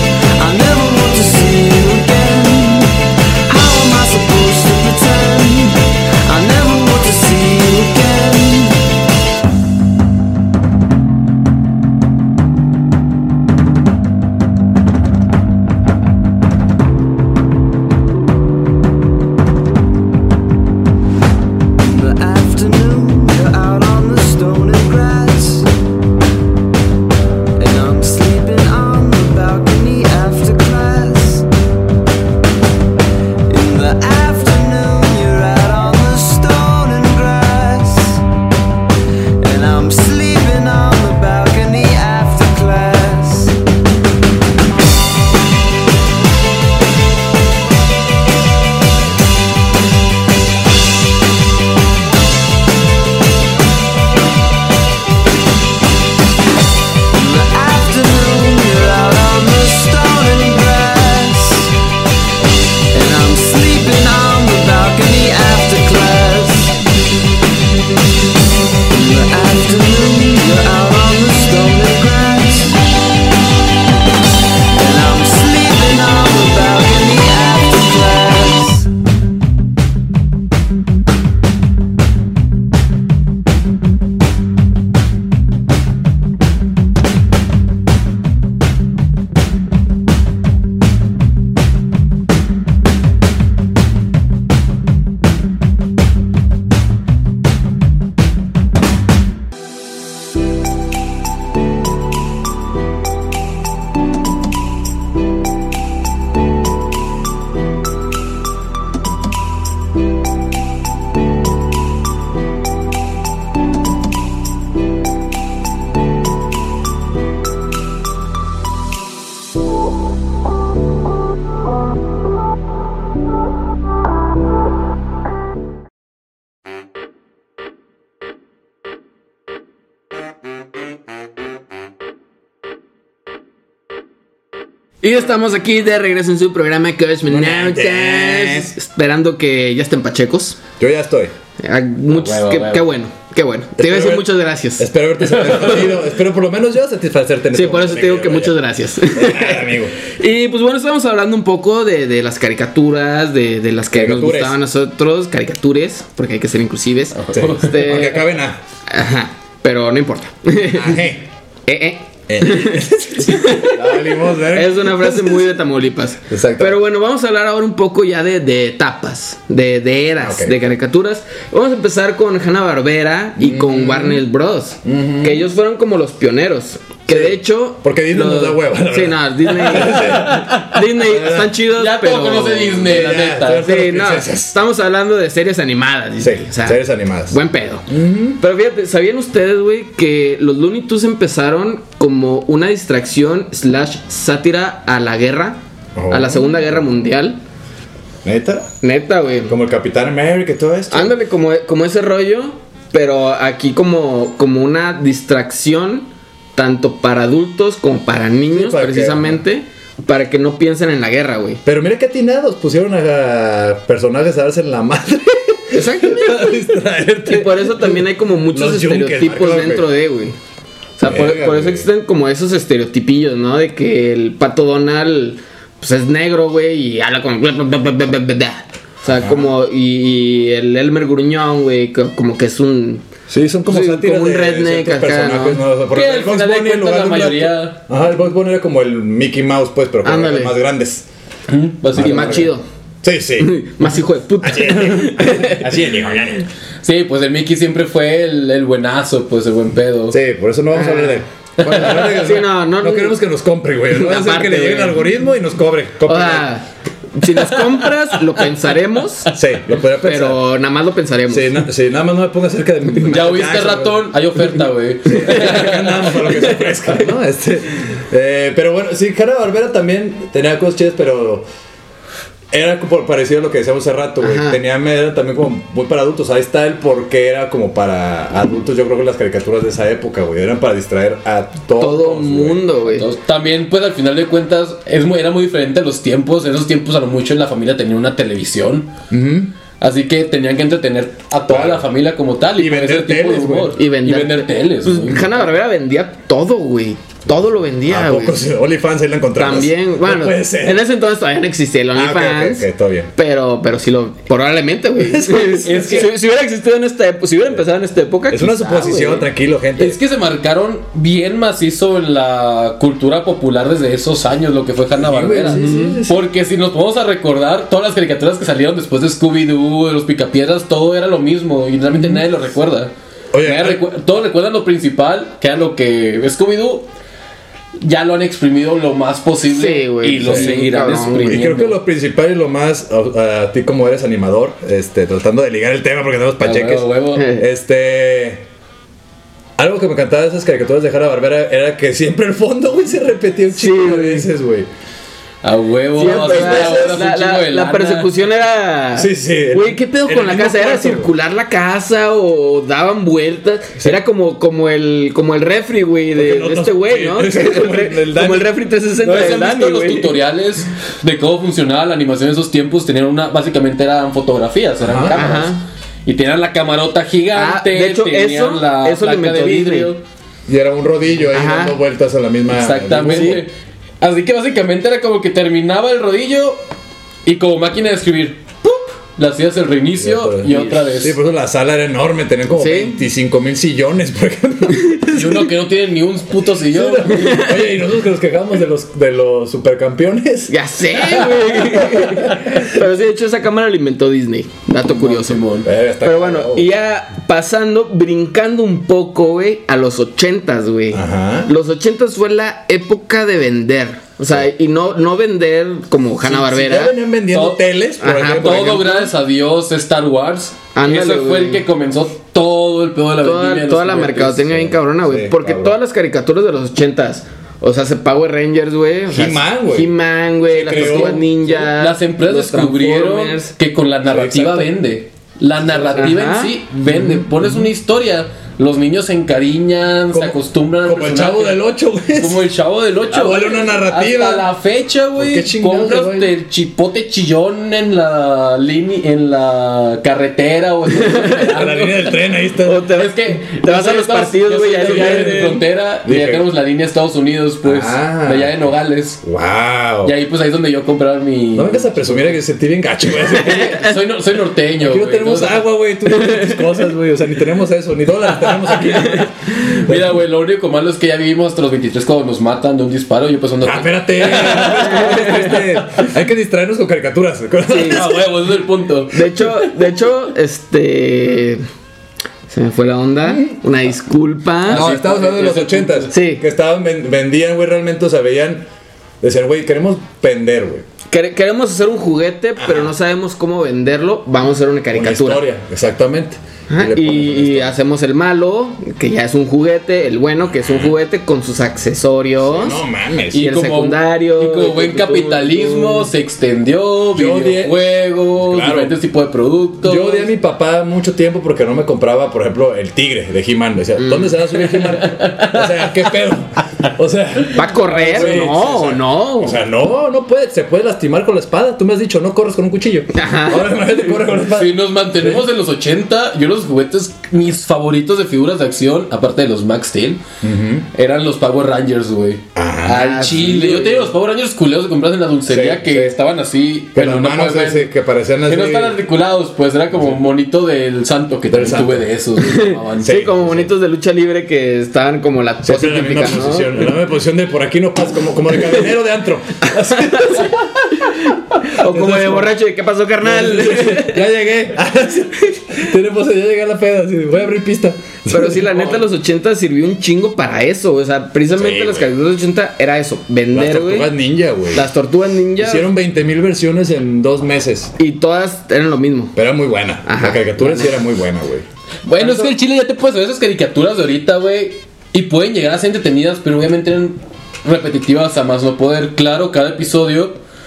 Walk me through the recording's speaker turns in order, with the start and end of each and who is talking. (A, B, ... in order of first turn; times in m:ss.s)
0:00.4-0:08.8 A
0:21.8-0:25.7 A
0:27.6-0:31.5 A
0:33.5-0:38.2 A
0:39.4-0:43.6 A
0:57.1-1:01.7 A
1:02.9-1:06.8 A
1:08.9-1:12.8 A
1:14.8-1:18.9 A
2:15.0-2:20.6 B
2:17.3-2:18.7 C
2:20.8-2:21.3 C
2:21.6-2:24.9 B
2:22.1-2:22.9 D
2:23.8-2:30.0 C
2:27.5-2:38.3 B
2:33.9-2:34.6 C
2:37.2-2:37.6 D
2:37.3-2:38.6 C
2:38.9-2:41.0 B
2:40.7-2:41.2 C
2:41.7-3:02.9 B
2:42.3-2:45.4 C
2:46.3-2:46.8 C
2:50.2-2:50.6 C
2:53.4-2:54.2 C
2:54.8-2:55.5 C
2:57.1-3:01.6 C
2:59.9-3:00.7 D
3:01.7-3:03.7 D
3:02.8-3:04.6 C
3:03.6-3:07.9 B
3:06.2-3:08.4 C
3:08.4-3:17.4 B
3:16.0-3:16.8 C
3:18.2-3:18.7 C
3:18.8-3:19.5 B
3:19.5-3:21.2 C
3:20.9-3:31.6 B
3:28.5-3:29.4 C
3:31.6-3:39.9 C
3:35.7-3:36.6 B
3:37.3-3:40.4 B
3:41.0-3:53.1 B
3:41.0-3:41.9 C
3:49.1-3:49.5 C
3:53.3-4:01.1 C
3:53.7-3:55.6 B
3:55.9-3:57.8 D
4:00.0-4:00.6 B
4:01.5-4:02.5 D
4:02.0-4:02.5 C
4:02.0-4:02.6 B
4:03.0-4:03.6 C
4:03.4-4:05.7 B
4:04.4-4:06.5 C
4:06.8-4:10.2 D
4:10.1-4:16.5 C
4:10.7-4:13.2 B
4:11.7-4:12.0 D
4:13.9-4:15.1 B
4:16.1-4:19.3 B
4:19.3-4:20.5 C
4:20.0-4:21.7 B
4:21.3-4:24.2 C
4:23.1-4:26.1 D
4:25.1-4:31.5 C
4:32.5-4:42.7 C
4:34.2-4:34.6 B
4:41.8-4:43.1 B
4:42.9-4:48.9 D
4:49.1-4:49.5 C
4:49.8-4:55.4 D
4:51.5-4:51.9 C
4:52.6-4:53.8 C
4:53.8-4:58.4 B
4:57.9-5:00.9 C
4:59.4-5:09.3 B
5:01.9-5:03.1 C
5:05.0-5:06.1 C
5:05.6-5:06.1 D
5:08.3-5:10.0 C
5:09.8-5:26.9 D
5:15.0-5:16.2 C
5:15.4-5:16.0 B
5:21.9-5:22.2 C
5:23.3-5:23.8 C
5:27.8-5:31.8 D
5:29.5-5:31.5 B
5:30.2-5:30.6 C
5:31.2-5:38.5 C
5:36.4-5:37.3 D
5:37.2-5:37.4 B
5:39.6-5:44.7 C
5:43.6-5:44.3 B
5:45.4-5:48.1 D
5:46.0-6:00.2 B
5:46.0-5:46.9 C
5:49.0-5:51.1 C
5:56.2-5:58.6 C
5:59.0-6:10.0 D
6:04.8-6:05.2 C
6:05.1-6:05.6 B
6:07.3-6:09.9 B
6:10.5-6:13.4 C
6:11.3-6:11.8 B
6:12.5-6:16.6 D
6:13.1-6:13.4 B
6:17.2-6:21.2 D
6:20.0-6:25.5 C
6:22.6-6:23.0 B
6:25.1-6:27.5 D
6:26.7-6:30.6 C
6:27.1-6:27.6 B
6:30.5-6:35.4 B
6:34.8-6:35.7 D
6:35.6-6:36.7 C
6:36.0-6:47.0 B
6:40.9-6:41.5 C
6:46.2-6:49.1 C
6:47.3-6:47.7 D
6:48.0-6:49.1 B
6:48.2-6:54.7 D
6:50.8-6:51.6 B
6:53.2-7:03.5 B
6:55.0-6:55.8 C
6:59.1-7:00.0 C
7:00.5-7:01.3 C
7:00.8-7:22.2 D
7:04.1-7:04.7 C
7:05.7-7:06.0 C
7:06.0-7:06.6 B
7:06.9-7:07.7 C
7:10.1-7:12.5 C
7:13.1-7:14.5 C
7:15.2-7:16.3 C
7:21.0-7:21.5 B
7:21.4-7:22.9 C
7:22.6-7:25.6 B
7:22.9-7:29.2 D
7:24.8-7:26.5 C
7:27.6-7:28.7 C
7:29.2-7:30.2 C
7:30.0-7:32.4 D
7:31.5-7:33.9 C
7:33.3-7:35.6 D
7:34.8-7:40.2 C
7:39.6-7:46.0 D
7:43.6-7:48.3 C
7:44.4-7:45.6 B
7:47.7-7:48.0 B
7:47.9-7:49.7 D
7:49.1-7:51.6 B
7:52.5-7:54.9 B
7:53.2-7:53.6 C
7:54.7-7:56.1 D
7:54.7-7:58.7 C
7:56.1-7:56.4 B
7:59.2-8:00.8 C
8:01.1-8:05.4 B
8:02.6-8:02.9 C
8:04.9-8:07.8 C
8:06.7-8:12.8 B
8:10.5-8:11.0 C
8:12.4-8:13.5 C
8:13.3-8:20.3 D
8:13.4-8:16.1 B
8:17.1-8:19.0 C
8:19.8-8:35.5 C
8:24.0-8:24.4 B
8:24.7-8:26.0 D
8:27.5-8:29.6 B
8:27.8-8:28.5 D
8:33.1-8:34.0 B
8:34.4-8:40.2 D
8:40.4-8:40.9 C
8:40.9-8:53.2 D
8:42.6-8:43.3 C
8:42.8-8:44.1 B
8:45.5-8:46.1 C
8:46.9-8:49.0 C
8:49.9-8:50.2 C
8:51.5-8:52.1 C
8:52.4-8:56.9 B
8:53.0-8:53.7 C
8:55.6-9:00.7 C
8:59.9-9:04.2 B
9:01.8-9:02.6 C
9:03.2-9:09.0 C
9:08.3-9:14.1 B
9:11.5-9:12.1 C
9:13.5-9:14.9 C
9:14.7-9:15.9 B
9:15.6-9:17.9 C
9:18.0-9:19.4 B
9:19.4-9:21.7 C
9:20.0-9:21.0 B
9:22.1-9:30.4 D
9:22.1-9:22.5 B